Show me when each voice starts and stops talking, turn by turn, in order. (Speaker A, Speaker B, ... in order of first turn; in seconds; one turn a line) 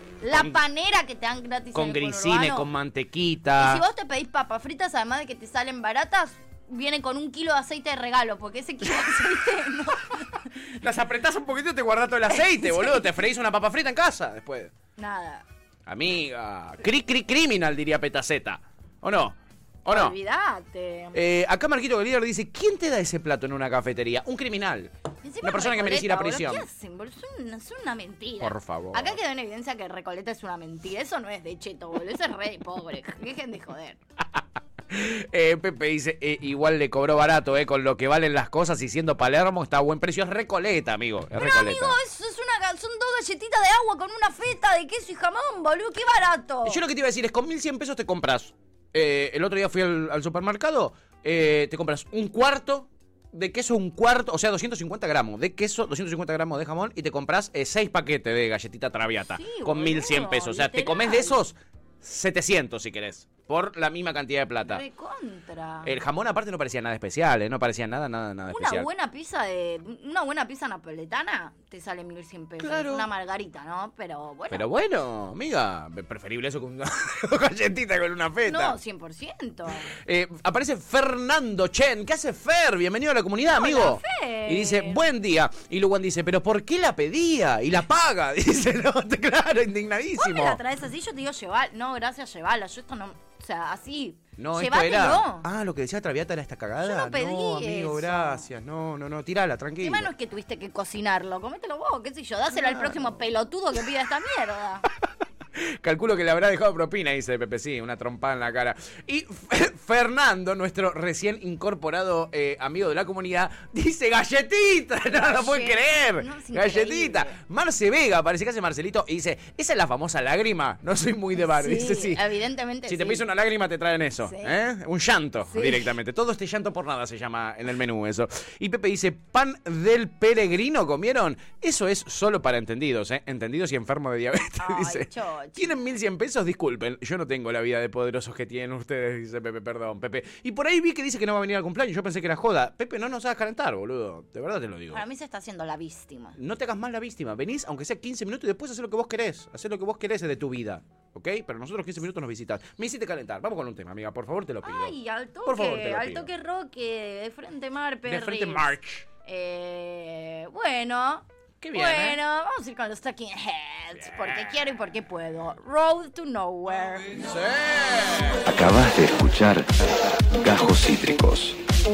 Speaker A: 0.2-2.7
Speaker B: 1.7-3.8
Speaker A: 3.6-10.5
Speaker B: 10.8-14.7
Speaker A: 12.3-13.1
Speaker A: 15.0-15.4
Speaker B: 15.9-20.1
Speaker A: 19.9-21.2
Speaker B: 21.1-26.6
Speaker A: 25.2-34.0
Speaker B: 28.4-29.2
Speaker B: 34.9-41.9
Speaker A: 41.4-46.8
Speaker B: 46.6-64.8
Speaker A: 59.3-61.4
Speaker A: 64.6-66.0
Speaker B: 65.8-68.9
Speaker A: 68.5-74.6
Speaker B: 72.6-73.0
Speaker B: 74.5-78.8
Speaker A: 78.5-79.9
Speaker B: 79.9-90.6
Speaker A: 83.5-85.0
Speaker A: 90.2-95.5
Speaker B: 94.4-100.1
Speaker A: 96.8-98.5
Speaker A: 99.8-104.8
Speaker B: 102.6-103.0
Speaker B: 105.8-122.2
Speaker A: 115.2-117.4
Speaker A: 121.3-123.2
Speaker B: 122.8-145.0
Speaker A: 124.2-124.5
Speaker A: 125.5-125.9
Speaker A: 134.6-135.7
Speaker A: 144.9-146.3
Speaker B: 146.3-156.3
Speaker A: 154.6-158.7
Speaker B: 158.1-159.1
Speaker A: 159.2-167.2
Speaker B: 161.6-162.2
Speaker B: 164.0-164.6
Speaker B: 167.1-168.4
Speaker C: 168.4-171.6